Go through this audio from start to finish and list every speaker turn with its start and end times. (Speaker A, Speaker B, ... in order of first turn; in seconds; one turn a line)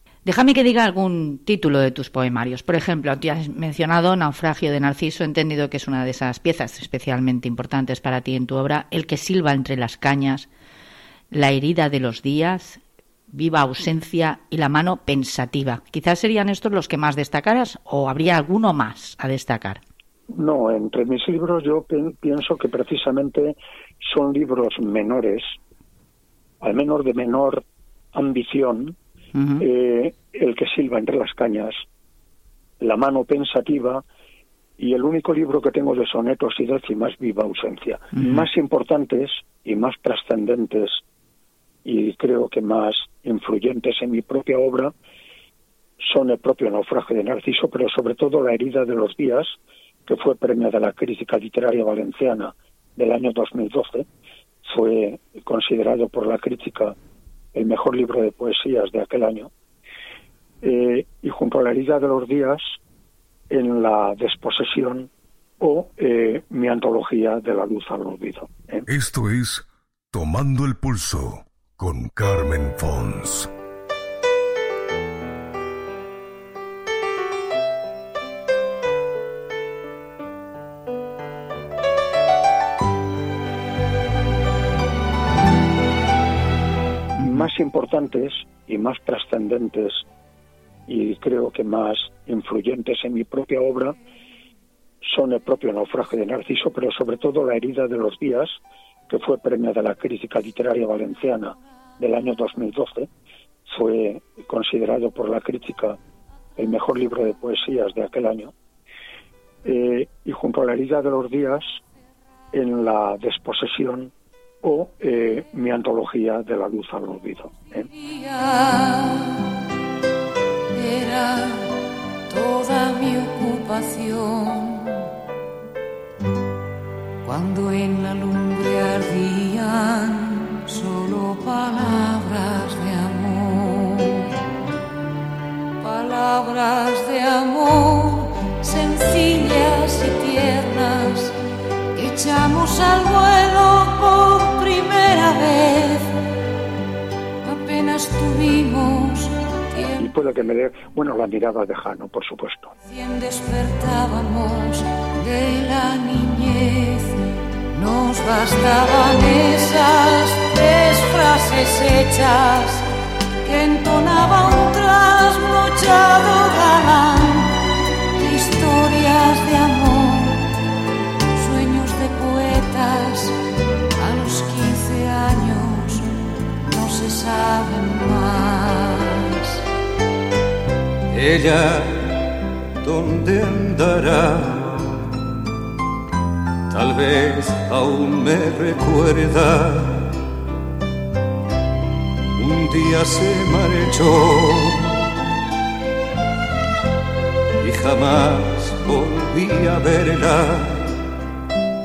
Speaker A: 0.3-10.5
Speaker A: 11.3-19.8
Speaker B: 20.3-25.6
Speaker B: 26.6-29.0
Speaker A: 29.4-29.6
Speaker B: 29.6-31.8
Speaker B: 32.8-34.0
Speaker B: 34.8-41.0
Speaker A: 38.2-38.5
Speaker B: 41.8-44.9
Speaker B: 46.0-54.1
Speaker B: 54.6-57.0
Speaker B: 57.5-59.5
Speaker B: 60.6-62.8
Speaker B: 63.5-68.9
Speaker C: 68.9-73.5
Speaker B: 87.2-90.1
Speaker B: 90.9-94.0
Speaker B: 95.0-103.1
Speaker B: 103.7-106.0
Speaker B: 106.6-108.5
Speaker B: 109.6-111.8
Speaker B: 112.5-117.9
Speaker D: 118.0-119.5
Speaker D: 120.7-121.7
Speaker D: 122.3-125.1
Speaker D: 127.2-134.3
Speaker D: 135.8-141.4
Speaker D: 141.9-146.2
Speaker D: 147.4-150.1
Speaker B: 150.0-152.7
Speaker D: 152.9-162.9
Speaker D: 163.4-170.5
Speaker D: 171.3-173.4
Speaker D: 174.0-179.6
Speaker E: 181.1-182.2
Speaker E: 182.8-185.1
Speaker E: 186.7-190.2
Speaker E: 192.3-195.0
Speaker E: 197.6-200.9